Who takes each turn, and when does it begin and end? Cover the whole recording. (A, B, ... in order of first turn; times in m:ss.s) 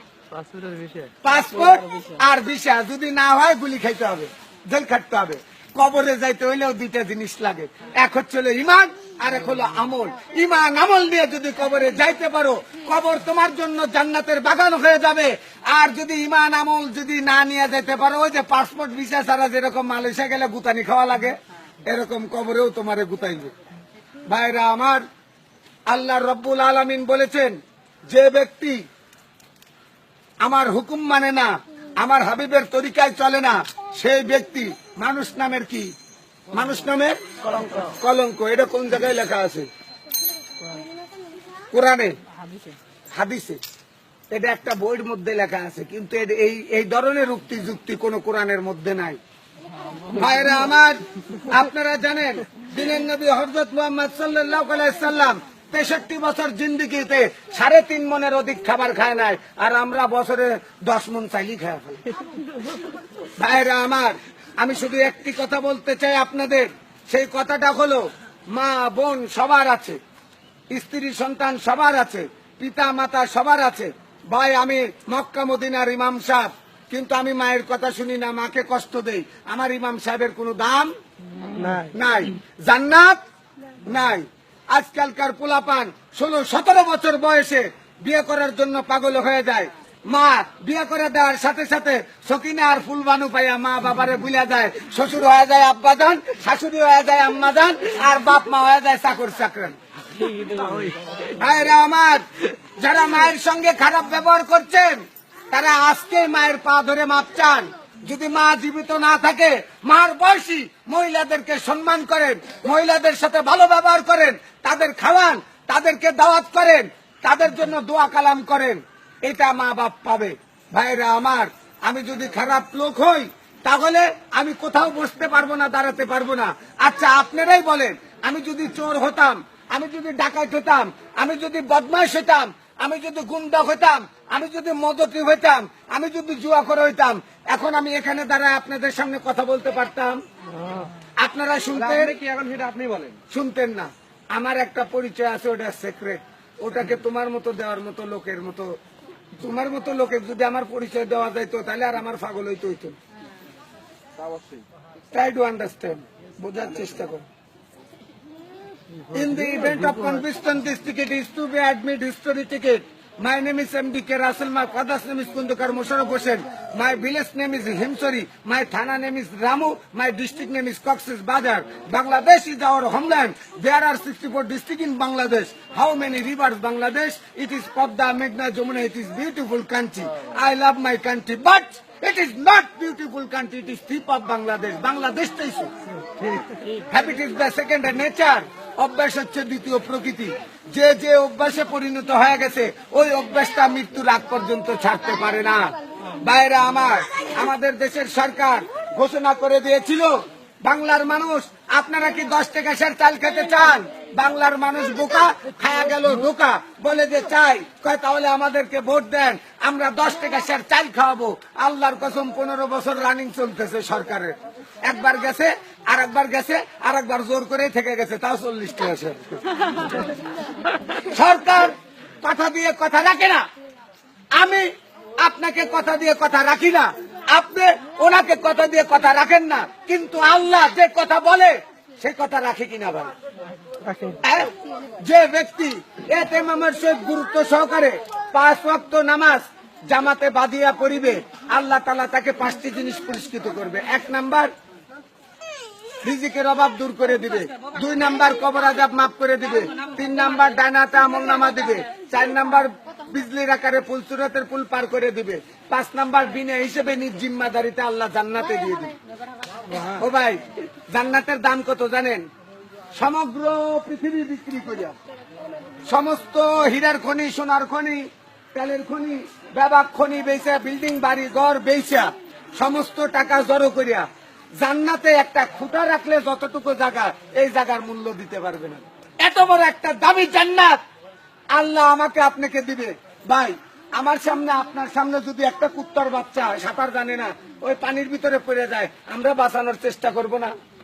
0:00.4-0:01.1 A
0:01.2-0:23.5 B
0:24.3-0:25.0 B
0:25.9-0:28.8 B
0:30.4-0:35.9 B
0:36.5-0:39.7 B
0:41.7-0:42.2 B
0:43.1-0:43.6 B
0:44.3-0:49.2 B
0:50.1-1:02.0 B
1:03.4-1:10.0 B
1:10.7-1:20.9 B
1:21.5-1:21.9 A
1:21.8-1:23.2 B
1:23.9-1:39.8 B
1:40.2-1:41.2 A
1:41.3-2:20.2 B
2:21.2-2:22.1 B
2:21.8-2:23.2 A
2:23.3-2:28.8 B
2:29.4-2:33.0 B
2:35.1-2:37.2 B
2:39.1-3:05.7 B
3:06.2-3:39.4 B
3:41.0-3:43.5 B
3:44.4-3:53.1 B
3:53.9-3:54.2 A
3:54.2-4:04.5 B
4:06.0-4:19.0 B
4:19.7-4:20.0 A
4:19.8-4:22.3 B
4:23.0-4:25.0 B
4:25.9-4:34.1 B
4:34.6-4:40.8 B
4:41.5-4:50.5 B